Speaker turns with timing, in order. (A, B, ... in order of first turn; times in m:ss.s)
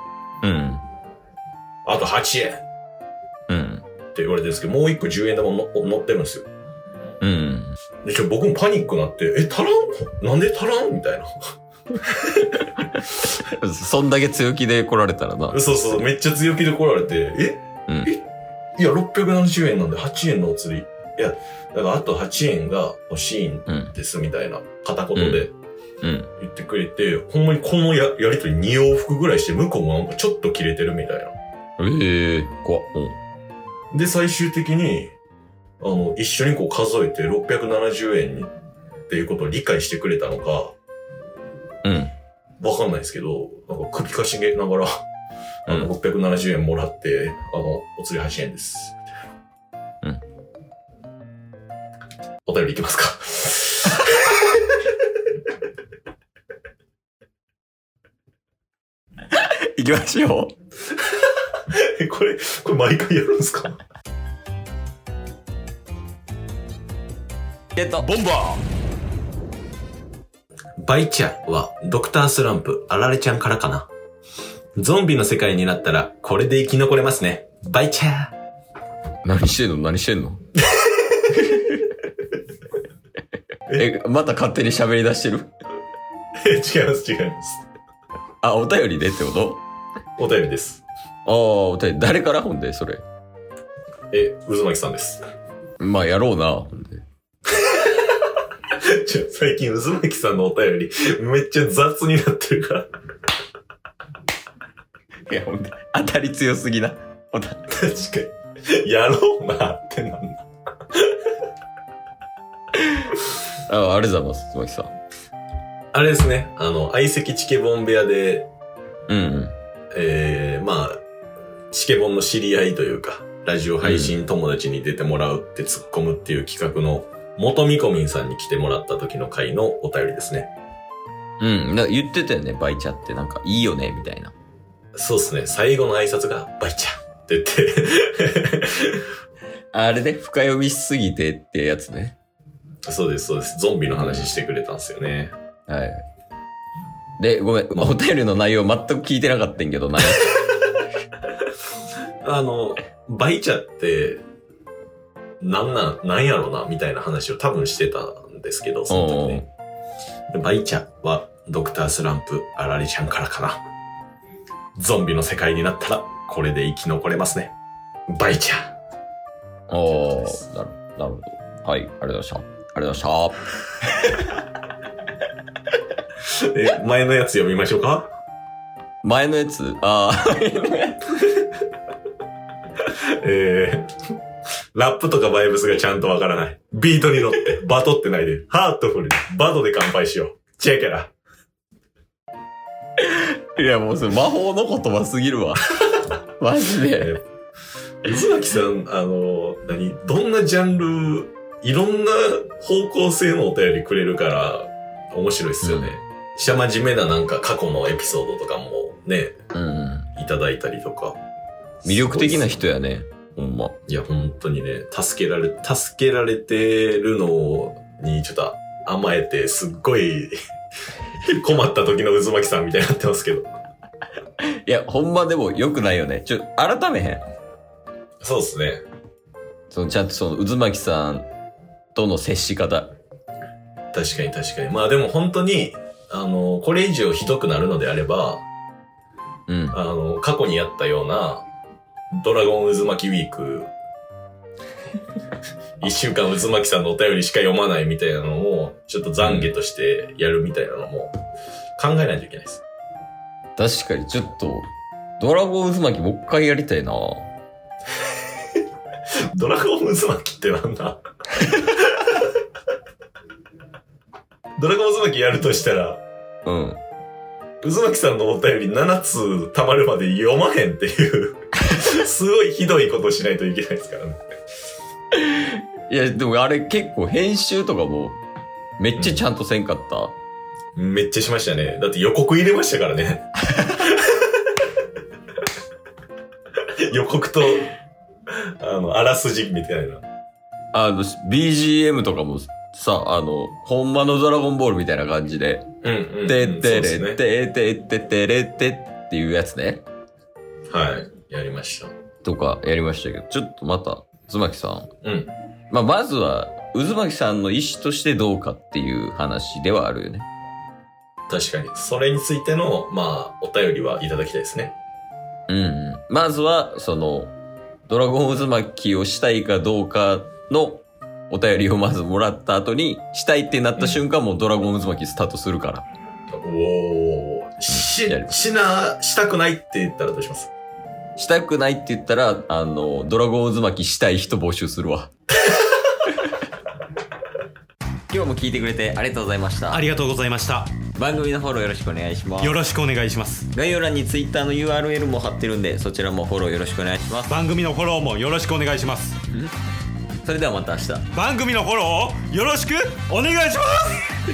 0:00.4-0:00.9 A
0:01.8-0:02.6 B
0:03.5-0:03.8 A
0:04.2-0:06.5 B
0:07.2-0:07.8 A
0:08.0-0:11.4 B
0:12.2-0:12.5 B
0:13.2-0:15.6 A
0:15.5-0:18.2 B
0:18.8-0:25.5 B
0:23.7-0:24.0 A
0:25.2-0:25.5 A
0:26.0-0:26.3 A
0:26.4-0:31.4 B
0:31.8-0:33.2 A
0:33.9-0:35.1 B
0:35.8-0:38.5 B
0:39.1-0:40.8 B
0:41.8-0:42.1 A
0:42.6-0:45.0 B
0:45.7-0:49.0 B
0:52.4-0:54.4 B
0:59.3-1:00.5 A
1:01.7-1:03.8 B
1:07.8-1:08.2 A
1:08.0-1:08.6 C
1:10.8-1:13.9 B
1:14.8-1:18.3 B
1:19.2-1:20.4 A
1:21.4-1:21.9 A
1:23.8-1:25.5 A
1:26.4-1:27.6 B
1:28.4-1:29.6 A
1:30.2-1:30.8 B
1:31.3-1:33.0 A
1:34.1-1:35.2 B
1:35.8-1:37.0 A
1:37.6-1:38.2 B
1:38.7-1:42.9 B
1:45.3-1:47.7 A
1:47.7-1:51.1 B
1:53.7-1:54.9 A
1:55.9-1:58.5 B
1:59.1-1:59.6 A
1:59.9-2:01.0 B
2:01.7-2:10.5 B
2:03.8-2:04.2 A
2:11.4-2:14.3 A
2:15.0-2:19.0 B
2:19.7-2:22.2 A
2:22.8-2:25.3 B
2:23.9-2:24.3 A
2:25.7-2:26.0 A
2:27.2-2:30.3 A
2:32.2-2:34.2 B
2:35.4-2:39.4 B
2:38.9-2:39.5 A
2:40.3-2:43.6 B
2:44.8-2:47.5 B
2:48.1-2:48.8 B
2:49.7-2:53.5 A
2:56.3-2:58.1 B
2:59.0-3:01.1 A
3:02.9-3:03.9 B
3:04.7-3:11.1 B
3:13.0-3:17.2 A
3:18.0-3:29.4 B
3:25.6-3:26.0 A
3:29.5-3:30.1 A
3:30.2-3:31.2 B
3:31.8-3:32.5 B
3:31.8-3:33.8 A
3:33.9-3:40.3 B
3:41.2-3:43.5 B
3:44.7-3:47.2 A
3:48.2-3:48.8 B
3:49.7-3:51.3 A
3:51.9-3:53.0 A
3:53.9-3:58.5 B
3:59.5-3:59.8 A
3:59.7-4:01.4 B
4:02.1-4:03.7 B
4:05.8-4:11.1 B
4:09.2-4:09.5 A
4:11.8-4:12.6 B
4:13.6-4:14.6 A
4:15.2-4:17.3 A
4:19.3-4:22.2 B
4:24.6-4:26.0 B
4:26.4-4:26.8 A
4:27.6-4:34.2 B
4:35.2-4:38.2 A
4:38.8-4:40.2 A
4:39.0-4:39.2 B
4:40.8-4:44.5 B
4:46.9-4:47.7 B
4:48.6-4:50.0 B
4:50.7-4:55.7 A
4:55.8-4:57.2 B
4:56.3-4:59.8 A
5:00.7-5:01.9 B
5:02.2-5:04.9 A
5:05.0-5:05.3 B
5:05.7-5:10.3 A
5:11.3-5:14.8 B
5:15.5-5:17.4 A
5:17.9-5:25.8 A
5:26.3-5:30.5 B
5:27.7-5:28.4 A
5:31.2-5:35.1 A
5:38.1-5:39.9 A
5:39.7-5:40.8 C
5:40.9-5:42.6 A
5:42.4-5:43.5 C
5:43.5-5:47.4 A
5:47.3-5:49.2 C
5:50.2-5:51.1 A
5:51.1-5:54.1 C